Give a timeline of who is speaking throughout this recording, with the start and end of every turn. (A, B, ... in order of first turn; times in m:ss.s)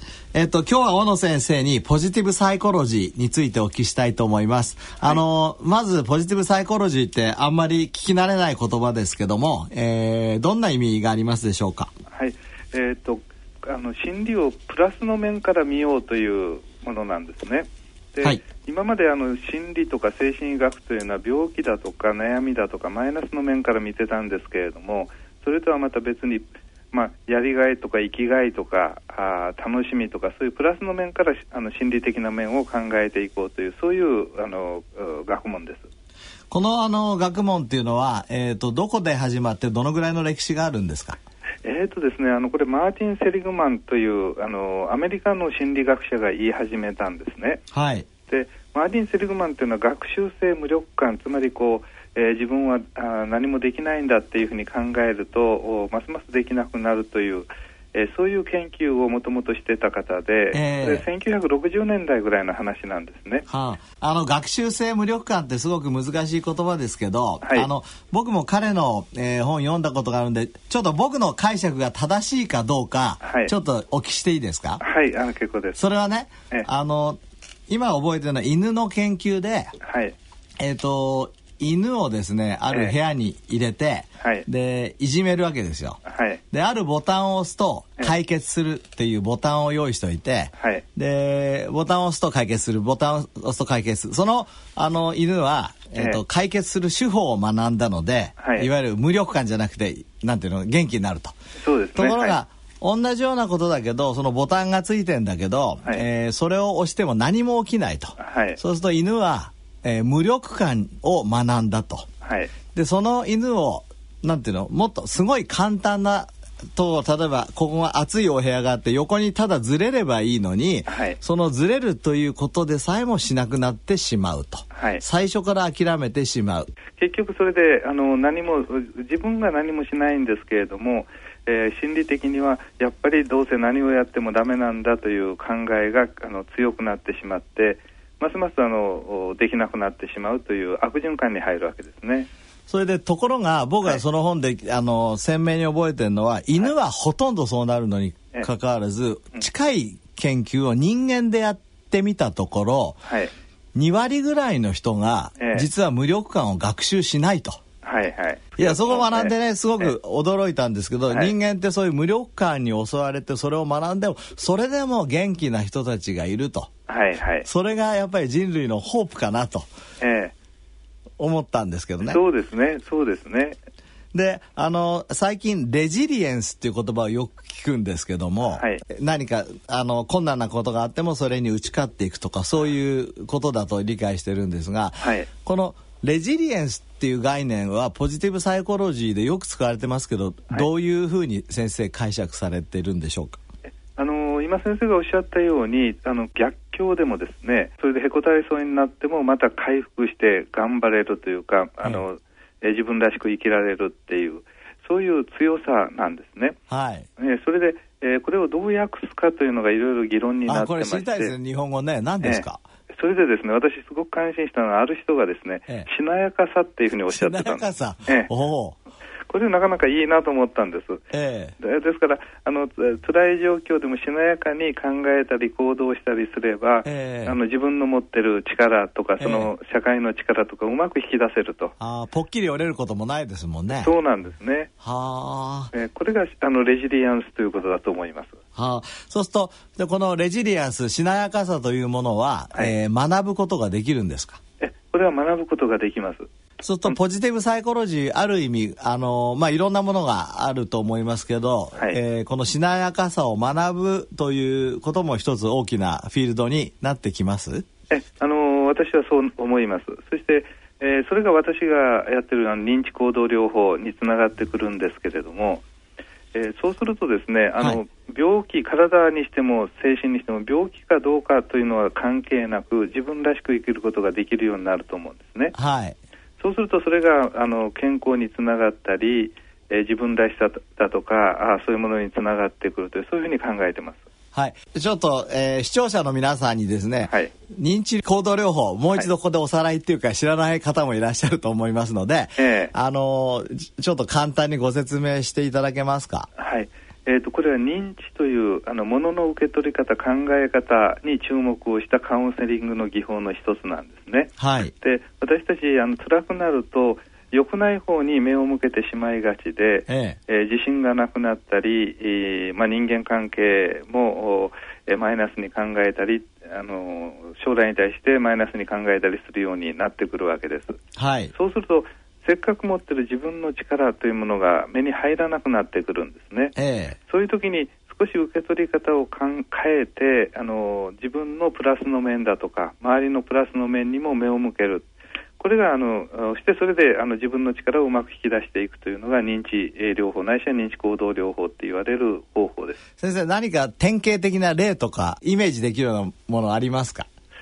0:00.3-0:11.9 A
0:12.1-0:35.9 B
0:36.5-0:41.2 A
0:41.6-0:47.6 B
0:47.7-0:48.0 A
0:48.3-1:03.4 B
1:00.5-1:01.0 A
1:03.5-1:14.8 A
1:13.2-1:13.5 B
1:14.8-1:15.8 B
1:15.8-1:19.7 A
1:19.8-1:20.1 B
1:20.6-1:41.4 A
1:26.1-1:26.4 B
1:35.9-1:36.2 B
1:38.4-1:38.7 B
1:41.6-1:42.4 B
1:41.9-1:52.1 A
1:48.2-1:48.6 B
1:52.2-1:52.5 B
1:52.7-2:06.7 A
2:00.9-2:01.2 B
2:04.7-2:05.0 B
2:07.0-2:22.3 B
2:22.7-2:33.0 A
2:33.1-2:33.3 B
2:33.7-2:37.6 A
2:35.4-2:35.6 B
2:37.8-2:39.9 B
2:38.6-2:46.7 A
2:46.9-2:47.4 B
2:47.4-2:49.7 A
2:50.0-2:50.3 B
2:51.2-2:52.2 A
2:52.0-2:53.6 B
2:54.1-3:13.4 A
2:58.5-2:58.8 B
3:05.0-3:05.3 B
3:14.0-3:26.6 B
3:26.7-3:27.1 A
3:27.2-3:31.3 B
3:30.5-3:32.6 A
3:32.9-3:38.3 B
3:37.1-3:38.8 A
3:39.3-3:41.0 B
3:41.1-3:41.5 A
3:41.6-3:51.7 B
3:46.8-3:47.4 A
3:49.2-3:49.5 A
3:51.8-3:53.9 A
3:53.7-3:54.7 B
3:54.8-3:55.7 A
3:55.7-3:58.4 B
3:58.5-4:04.4 A
4:04.6-4:06.3 B
4:06.6-4:17.6 A
4:17.9-4:25.6 B
4:26.3-4:35.5 B
4:35.5-4:36.0 A
4:36.4-4:44.0 B
4:44.3-4:56.3 A
4:47.1-4:47.3 B
4:52.4-4:52.7 B
4:56.4-5:20.8 B
5:04.4-5:04.7 A
5:09.9-5:10.2 A
5:21.0-5:21.3 A
5:21.3-5:26.5 B
5:26.6-5:27.0 A
5:27.1-5:34.9 B
5:35.4-5:42.8 B
5:43.0-5:47.1 A